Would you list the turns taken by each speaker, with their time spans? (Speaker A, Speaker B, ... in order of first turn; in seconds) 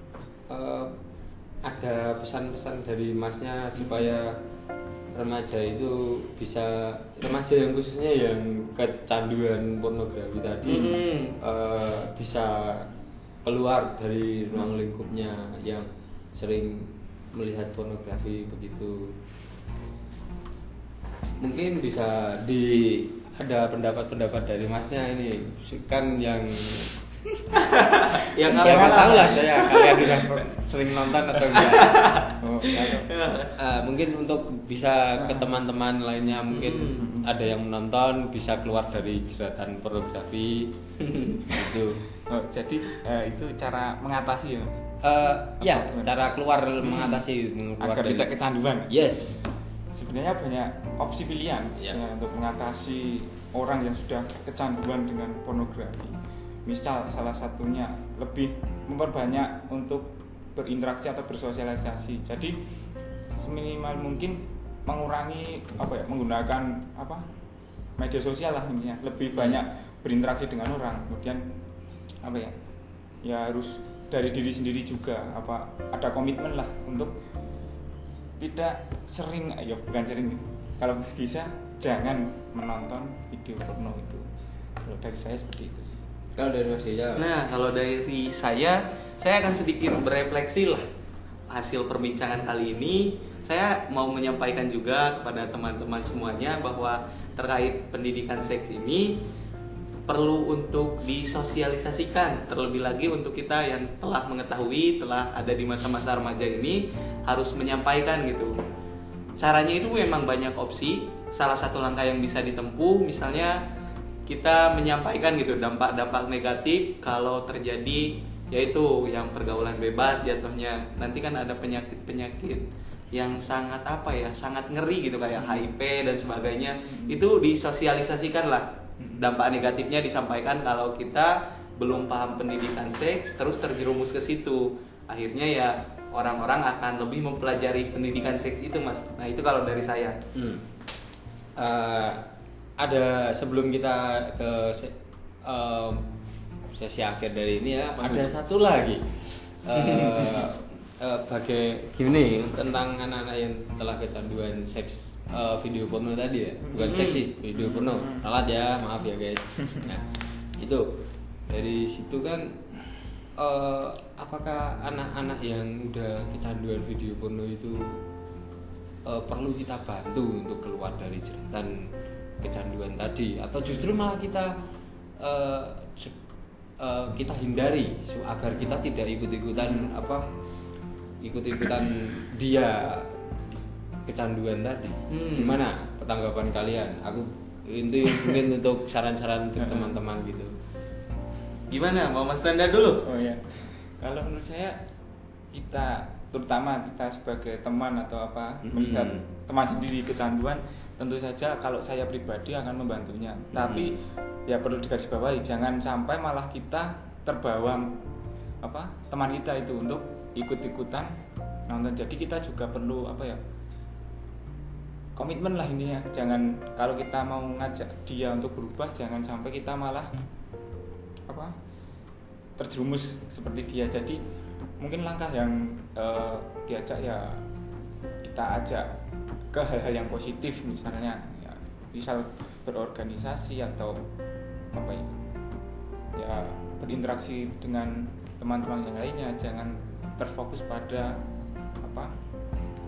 Speaker A: 0.5-0.9, 1.6-4.3, 5.1-12.9, 13.4-19.1, 21.4-26.9, 28.6-32.1, 32.7-33.1, 33.6-40.7, 41.5-42.0, 45.0-48.3, 48.9-49.4, 69.3-69.6, 86.4-87.3, 140.3-140.6, 141.6-142.2, 142.8-146.1, 146.7-160.9, 161.5-162.6, 163.4-168.0, 169.1-171.9, 172.4-174.5, 175.2-176.2, 176.8-180.2, 181.2-183.1, 184.1-190.5, 198.6-199.2, 203.5-203.9
Speaker B: 3.8-4.2, 14.5-14.8, 28.5-29.5, 32.4-33.1, 35.2-35.5, 37.0-37.3, 42.3-44.9, 45.5-46.3, 46.8-47.2, 47.8-48.9, 49.9-62.6, 63.4-67.2, 68.0-71.5, 72.2-72.6, 73.2-77.2, 78.4-84.2, 84.8-86.0, 125.4-125.7, 126.8-127.2, 129.0-129.3, 157.5-158.3, 173.7-173.9, 179.6-179.9, 189.6-190.0, 193.0-194.8, 195.5-207.9, 208.6-211.1, 211.7-213.4, 215.2-220.1, 222.6-224.2, 224.8-227.4, 228.2-228.9, 229.5-234.0, 234.7-235.1, 236.2-241.2, 241.8-242.1
Speaker C: 10.7-11.3, 27.6-30.0, 31.6-33.5, 36.5-37.1, 41.0-41.5, 87.2-90.8, 91.5-99.2, 100.1-108.5, 109.4-113.6, 114.3-128.7, 129.2-140.2, 149.7-150.4, 156.7-157.2, 185.1-185.6, 191.7-193.0